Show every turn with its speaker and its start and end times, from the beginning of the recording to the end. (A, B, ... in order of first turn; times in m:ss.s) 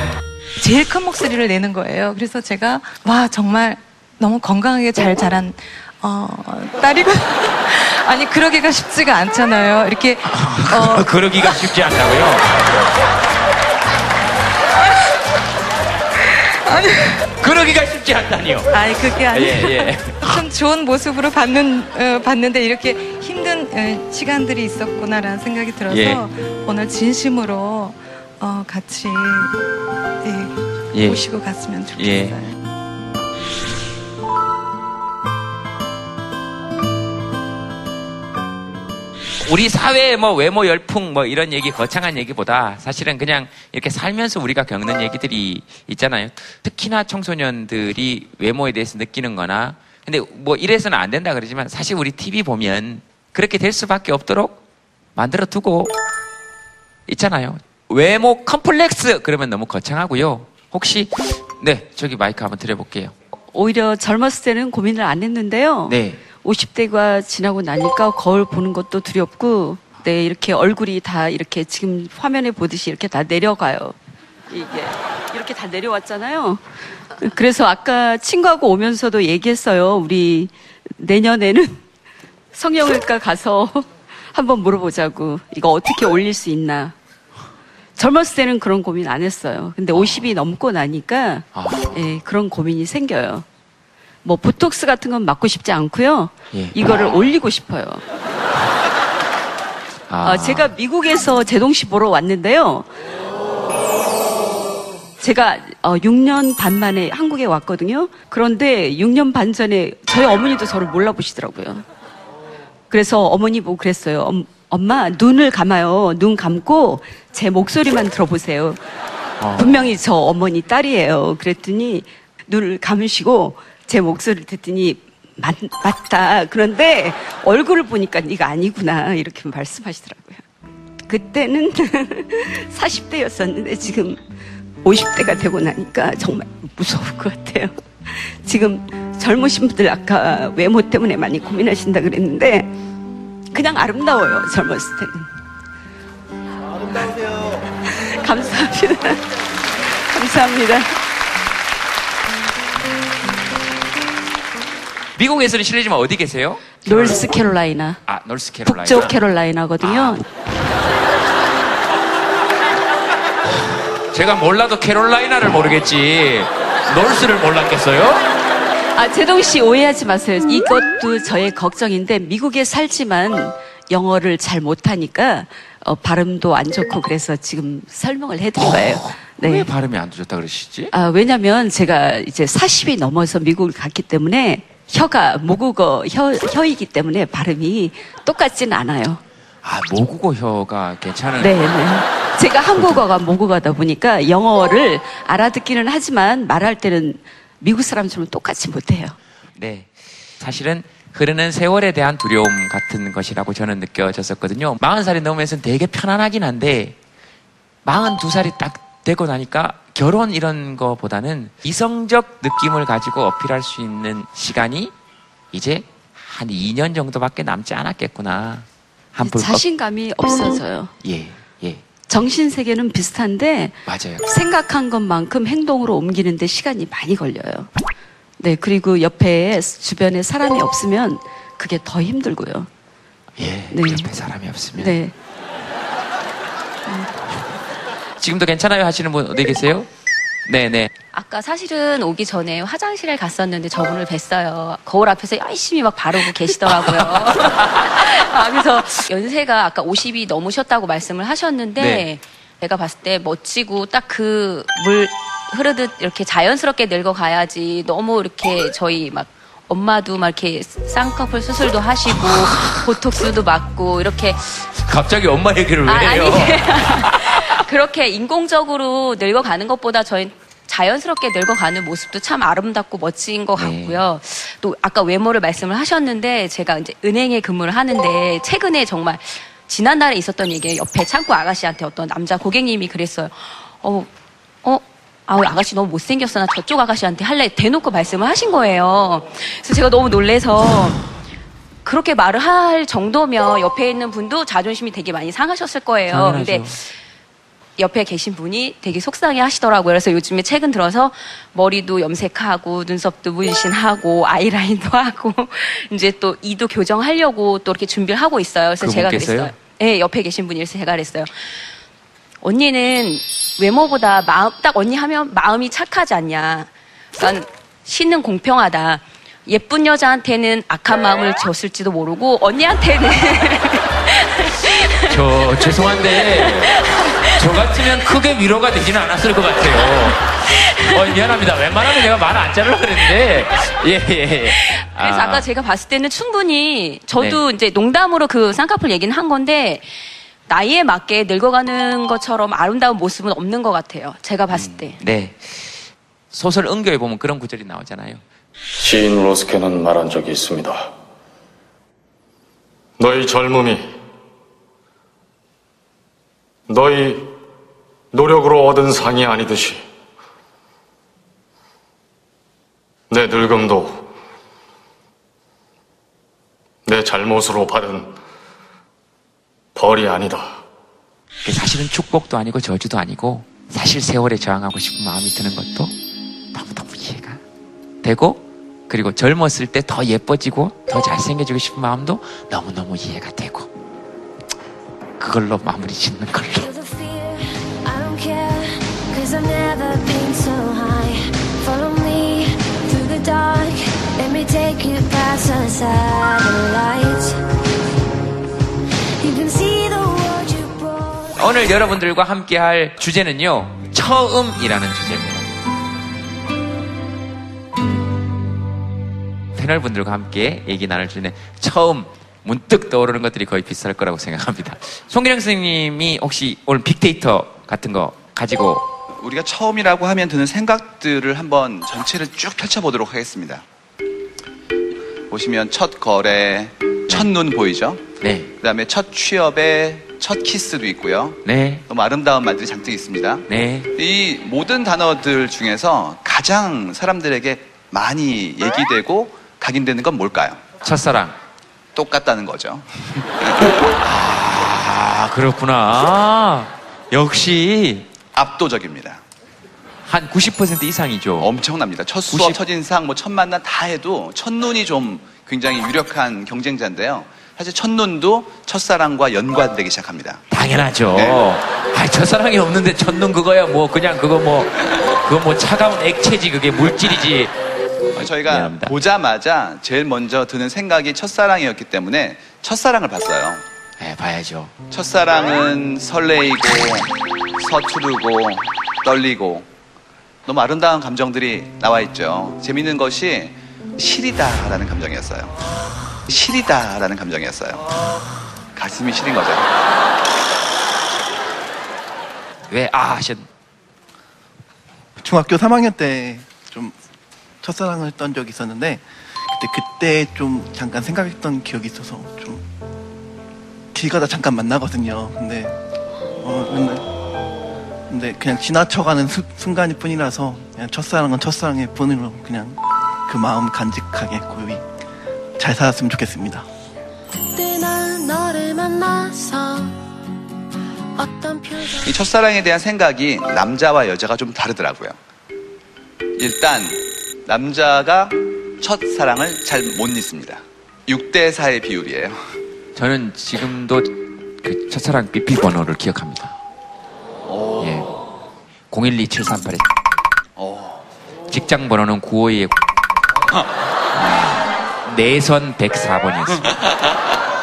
0:00.6-0:11.1 A
0:10.3-0:12.4 B
0:16.6-0:17.2 A
0:17.4-0:18.7 B
0:18.7-0:29.6 A
0:19.3-0:20.4 B
0:25.9-0:26.2 B
0:30.2-0:32.5 A
0:30.9-0:31.2 B
0:32.0-0:32.4 B
0:39.4-0:54.6 B
0:55.1-0:55.9 B
0:57.1-1:03.1 B
1:03.5-1:13.9 C
1:05.9-1:06.2 B
1:14.5-1:21.8 C
1:22.5-1:26.9 C
1:28.0-1:33.4 C
1:29.9-1:30.3 B
1:31.5-1:31.9 B
1:34.2-1:38.0 C
1:40.1-1:40.7 B
1:40.2-1:42.9 C
1:45.2-1:51.8 C
1:52.9-1:58.8 C
1:59.4-1:59.9 B
1:59.6-2:10.4 C
2:11.1-2:14.2 C
2:14.8-2:22.7 C
2:23.5-2:25.3 C
2:27.8-2:29.2 C
2:29.9-2:30.9 C
2:35.2-2:37.3 B
2:36.8-2:38.0 C
2:38.0-2:39.1 B
2:38.6-2:40.2 C
2:39.8-2:40.2 B
2:44.1-2:48.2 B
2:48.9-2:59.7 C
2:58.6-3:00.9 B
3:00.9-3:09.2 C
3:09.6-3:12.0 B
3:11.4-3:19.2 C
3:12.6-3:13.1 B
3:19.6-3:27.0 B
3:27.8-3:34.9 B
3:35.5-3:39.6 B
3:39.2-3:40.9 C
3:41.0-3:41.8 B
3:42.1-3:47.7 C
3:43.8-3:44.2 B
3:48.4-3:52.7 C
3:53.4-3:55.0 B
3:53.7-3:54.1 C
3:54.8-3:55.1 C
3:58.2-3:59.9 B
4:00.4-4:00.9 B
4:01.1-4:24.6 D
4:06.9-4:07.7 B
4:11.8-4:12.1 B
4:22.0-4:22.8 B
4:24.7-4:27.6 B
4:25.9-4:44.1 D
4:33.6-4:34.0 B
4:44.6-4:51.0 D
4:51.8-4:56.9 D
4:56.1-4:56.8 B
4:57.8-5:11.3 D
5:08.8-5:09.5 B
5:12.4-5:25.0 D
5:25.0-5:30.2 B
5:30.8-5:35.5 B
5:34.6-5:39.8 D
5:40.5-5:45.0 D
5:44.5-5:48.2 B
5:48.8-5:50.9 E
5:53.0-5:53.9 E
5:56.7-5:57.3 E
5:58.1-5:59.8 E
6:03.1-6:04.1 E
6:06.8-6:08.1 E
6:09.7-6:10.6 E
6:11.4-6:15.9 B
6:16.5-6:17.4 B
6:18.0-6:23.7 B
6:25.2-6:26.7 B
6:26.6-6:37.4 F
6:39.2-6:41.8 F
6:41.4-6:45.5 B
6:49.5-6:58.9 B
6:59.2-7:03.6 G
7:05.3-7:08.0 G
7:08.2-7:08.5 B
7:08.6-7:20.6 G
7:11.4-7:11.8 B
7:13.5-7:13.9 B
7:20.8-7:21.4 B
7:21.9-7:22.9 G
7:24.0-7:28.1 B
7:28.3-7:29.2 G
7:30.0-7:31.5 B
7:31.4-7:40.4 G
7:32.3-7:32.6 B
7:40.5-7:47.5 B
7:41.1-7:41.4 G
7:48.1-7:48.9 B
7:48.2-7:53.6 G
7:54.0-7:54.7 B
7:54.9-7:59.7 G
8:00.4-8:05.5 G
8:06.3-8:07.8 G
8:08.8-8:09.6 G
8:12.7-8:13.5 B
8:15.2-8:17.0 H
8:17.6-8:22.6 H
8:23.9-8:25.8 H
8:26.4-8:27.0 H
8:28.1-8:34.8 H
8:35.6-8:36.7 H
8:37.4-8:40.0 F
8:41.1-8:42.2 F
8:42.0-8:45.2 G
8:46.4-8:52.4 G
8:52.9-8:56.5 B
8:57.5-8:58.0 G
8:57.8-8:58.1 B
8:58.9-8:59.9 B
9:00.6-9:01.0 G
9:01.5-9:02.8 B
9:04.2-9:04.5 B
9:05.0-9:06.7 B